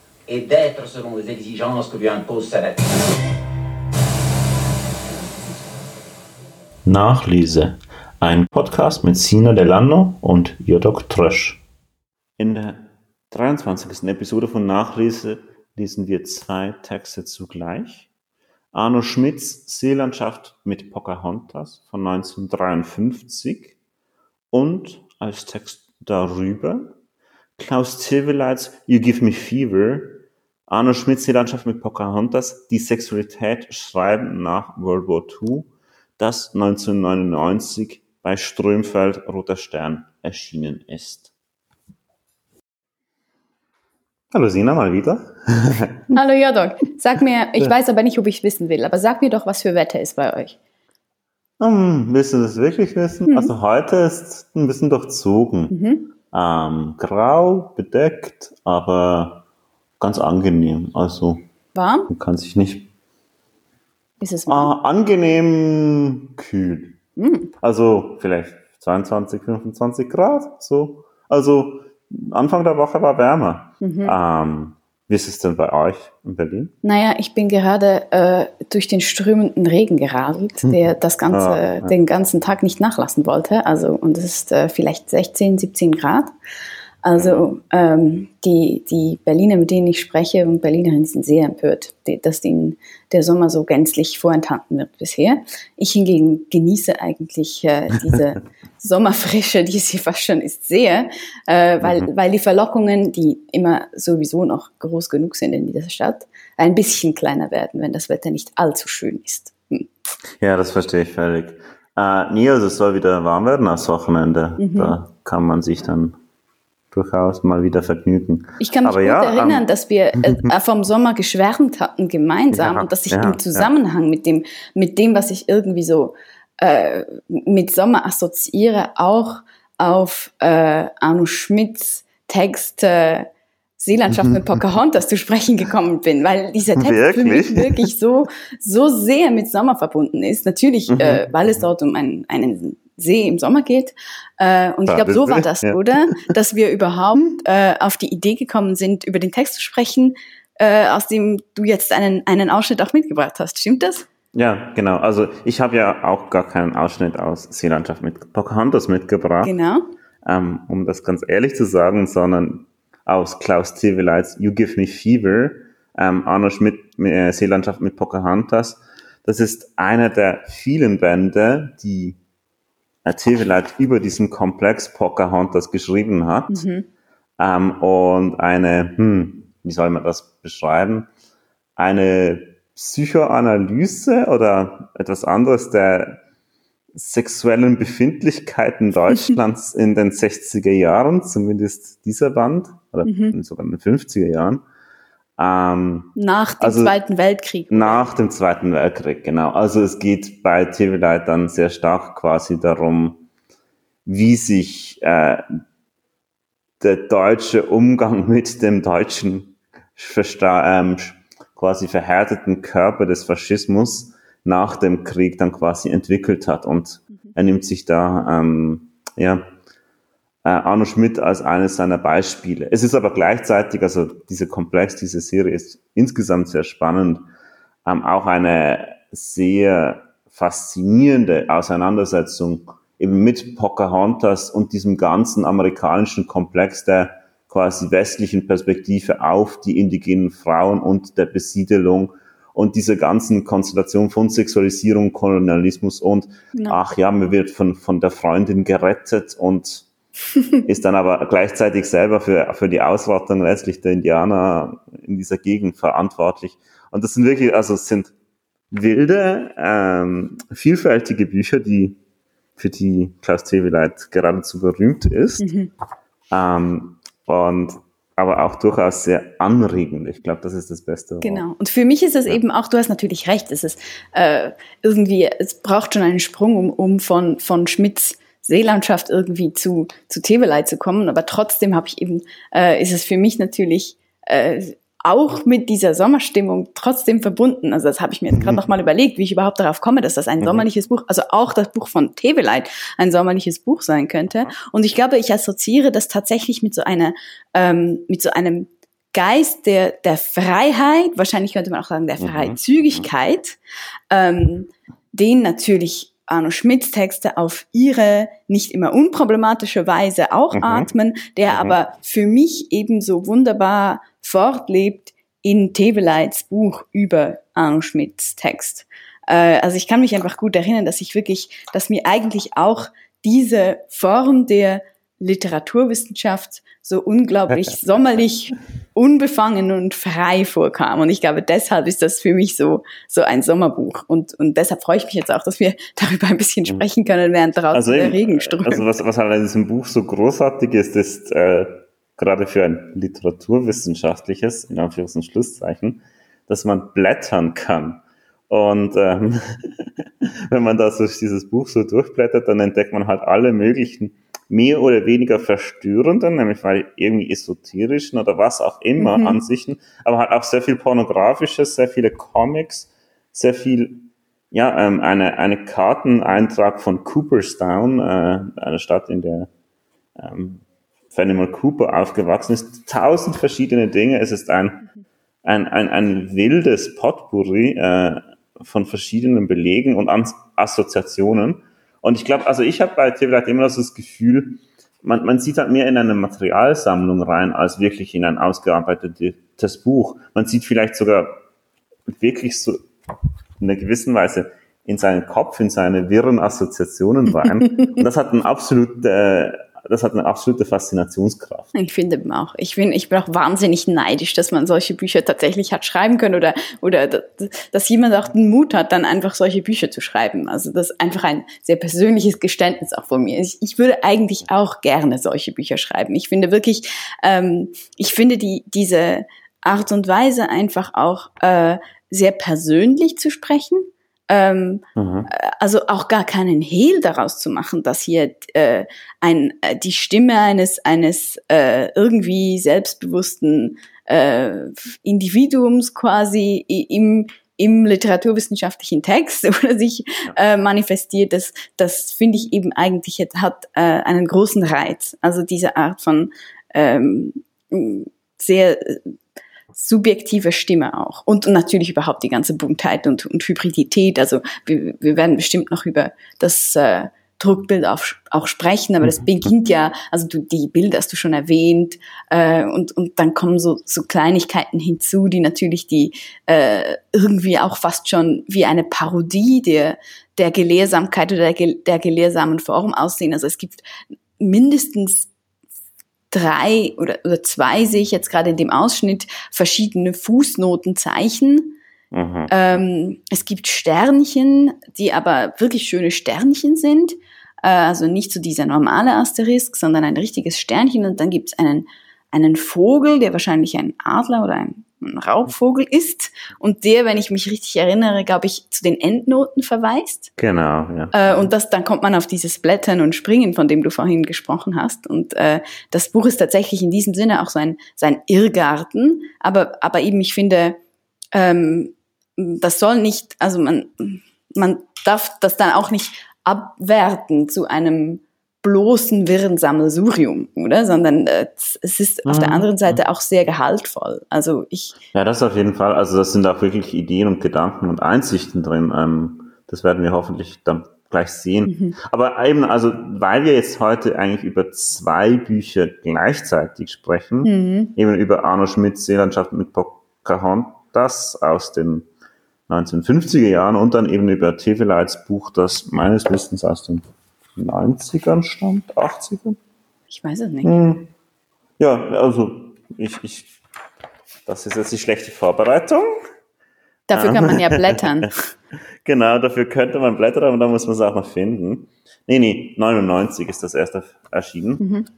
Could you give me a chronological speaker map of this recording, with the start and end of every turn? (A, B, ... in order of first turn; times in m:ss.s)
0:00.3-0:03.1 A
0:06.8-0:11.6 B
0:12.4-0:18.1 B
0:18.7-0:23.8 B
0:24.5-0:26.9 B
0:27.6-0:41.3 B
0:44.3-0:46.2 B
0:46.1-0:50.6 C
0:51.6-0:55.8 B
0:53.3-0:53.5 C
0:55.7-0:56.1 C
0:56.3-0:59.4 B
1:00.0-1:01.5 B
1:01.7-1:02.1 C
1:02.1-1:02.9 B
1:04.2-1:04.7 C
1:04.5-1:07.0 B
1:07.2-1:07.5 C
1:07.6-1:16.7 B
1:13.8-1:14.2 C
1:16.8-1:26.3 C
1:21.3-1:21.9 B
1:27.0-1:49.8 C
1:27.2-1:27.5 B
1:41.8-1:42.1 B
1:50.4-1:56.2 B
1:54.6-1:55.0 C
1:56.9-1:59.7 B
1:58.6-2:34.1 C
2:02.5-2:03.7 B
2:16.8-2:17.8 B
2:20.9-2:21.2 B
2:24.9-2:25.8 B
2:34.3-2:39.5 B
2:39.4-2:39.8 C
2:40.2-2:52.2 B
2:53.0-2:56.6 B
2:56.5-2:56.9 C
2:57.4-3:01.1 B
3:01.8-3:06.2 B
3:06.9-3:14.6 B
3:13.0-3:13.4 C
3:15.4-3:17.0 B
3:16.2-3:18.1 C
3:17.7-3:23.3 B
3:24.1-3:25.5 B
3:26.8-3:39.5 B
3:40.4-3:47.3 B
3:47.8-4:09.9 B
4:06.5-4:06.8 C
4:10.6-4:18.1 B
4:18.7-4:22.0 B
4:22.6-4:25.5 B
4:25.4-4:25.7 C
4:26.3-4:31.4 B
4:31.2-5:03.6 C
4:50.4-4:50.6 B
4:54.3-4:54.6 B
5:02.2-5:03.1 B
5:04.1-5:38.9 C
5:10.5-5:10.9 B
5:11.5-5:11.8 B
5:27.5-5:28.2 B
5:37.7-6:09.5 B
5:59.0-5:59.4 C
6:10.2-6:14.9 B
6:15.4-6:31.4 B
6:32.1-6:32.9 B
6:33.6-6:41.7 B
6:41.7-7:29.2 C
7:05.0-7:05.3 B
7:29.7-7:53.8 C
7:54.4-7:55.3 C
7:56.3-8:01.8 C
8:02.1-8:02.6 B
8:02.5-8:20.3 C
8:20.4-8:21.5 B
8:21.1-8:30.8 C
8:31.3-8:45.0 C
8:42.2-8:43.0 B
8:45.1-9:02.1 B
8:51.7-8:52.0 C
8:57.4-8:58.0 C
9:02.7-9:07.0 B
9:07.6-9:09.6 B
9:10.1-9:10.7 C
9:10.6-9:11.1 B
9:11.8-9:13.5 B
9:14.5-9:16.1 B
9:17.1-9:18.4 C
9:17.1-9:18.3 B
9:19.0-9:24.8 B
9:24.8-9:25.1 C